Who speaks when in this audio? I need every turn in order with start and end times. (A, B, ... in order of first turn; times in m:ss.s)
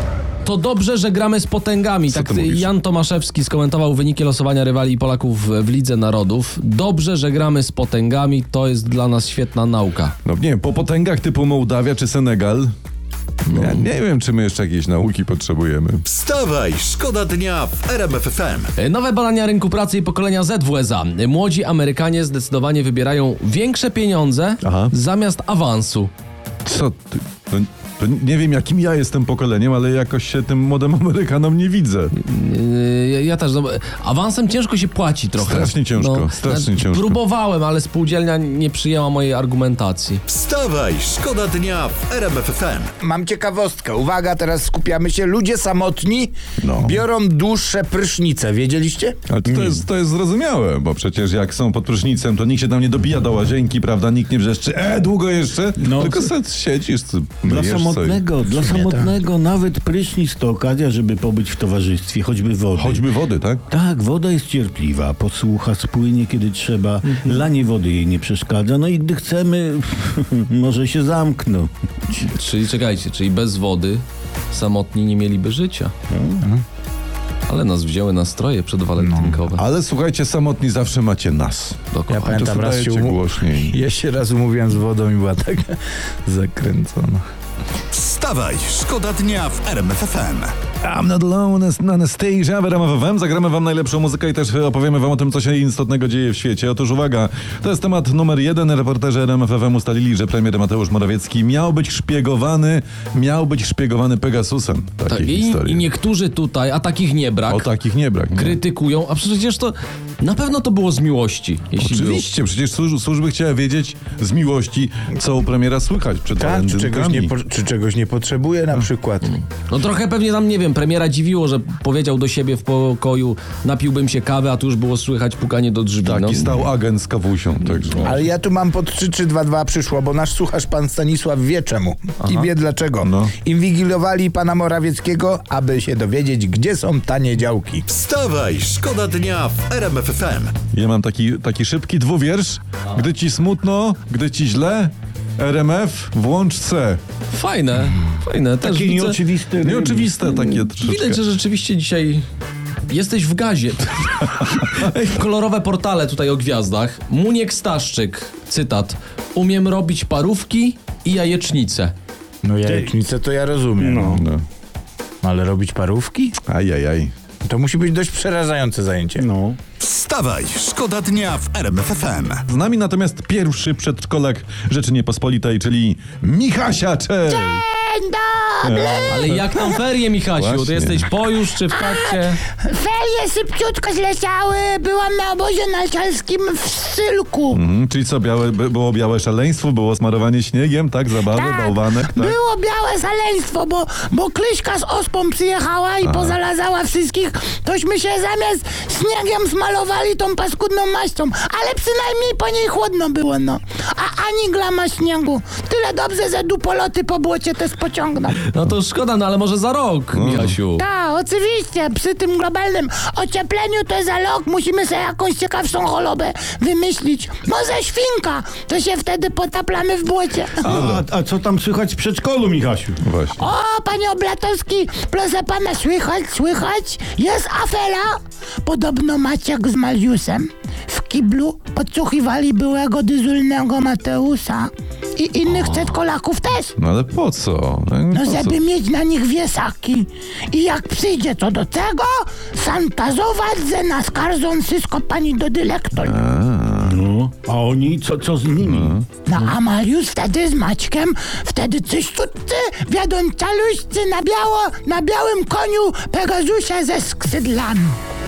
0:00.4-0:10.1 A
0:02.1-0:02.7 B
0:10.2-0:12.7 B
0:13.5-0:16.0 B
0:13.5-0:13.8 A
0:16.1-0:18.7 C
0:18.8-0:26.1 A
0:24.6-0:24.9 B
0:26.6-0:32.1 B
0:32.1-0:40.2 A
0:35.4-0:37.2 B
0:40.3-0:42.9 C
0:43.0-0:49.2 D
0:46.6-0:47.0 B
0:49.3-0:58.2 B
0:55.8-0:56.3 E
0:57.4-1:03.1 E
0:58.5-0:59.1 D
1:02.8-1:03.6 B
1:03.7-1:11.7 E
1:12.2-1:15.9 A
1:16.1-1:16.4 E
1:17.5-1:19.6 A
1:19.0-1:19.4 D
1:19.6-1:23.8 B
1:21.9-1:22.4 A
1:22.1-1:27.2 D
1:27.9-1:30.5 C
1:30.8-1:45.9 B
1:45.1-1:47.7 A
1:47.5-1:48.6 B
1:48.3-1:52.2 A
1:51.8-1:57.3 B
1:56.4-1:59.3 D
1:59.3-2:06.6 A
2:06.0-2:08.2 B
2:08.0-2:17.8 D
2:13.0-2:13.3 B
2:17.9-2:20.6 C
2:20.7-2:27.0 B
2:27.3-2:29.2 A
2:28.6-2:30.2 E
2:29.6-2:31.2 B
2:30.2-2:32.2 A
2:32.9-2:41.9 A
2:42.4-2:44.2 D
2:42.7-2:42.9 E
2:43.8-2:44.2 E
2:44.2-2:44.4 B
2:45.2-2:46.4 D
2:46.5-2:47.1 B
2:47.4-2:49.2 D
2:49.2-2:49.6 E
2:49.8-2:52.4 C
2:52.5-2:57.6 B
2:57.3-2:59.2 F
2:58.6-2:59.4 B
2:59.1-3:02.4 A
3:00.3-3:01.1 B
3:01.7-3:07.6 F
3:07.5-3:12.4 B
3:11.2-3:28.4 F
3:16.0-3:16.4 B
3:28.4-3:30.8 A
3:30.1-3:30.6 B
3:30.8-3:40.7 F
3:40.6-3:43.0 E
3:40.6-3:41.0 B
3:43.0-3:43.4 B
3:43.3-3:56.8 F
3:56.8-3:58.6 B
3:58.1-4:06.2 F
4:06.0-4:07.0 B
4:06.8-4:09.0 E
4:08.6-4:09.0 B
4:09.2-4:18.0 F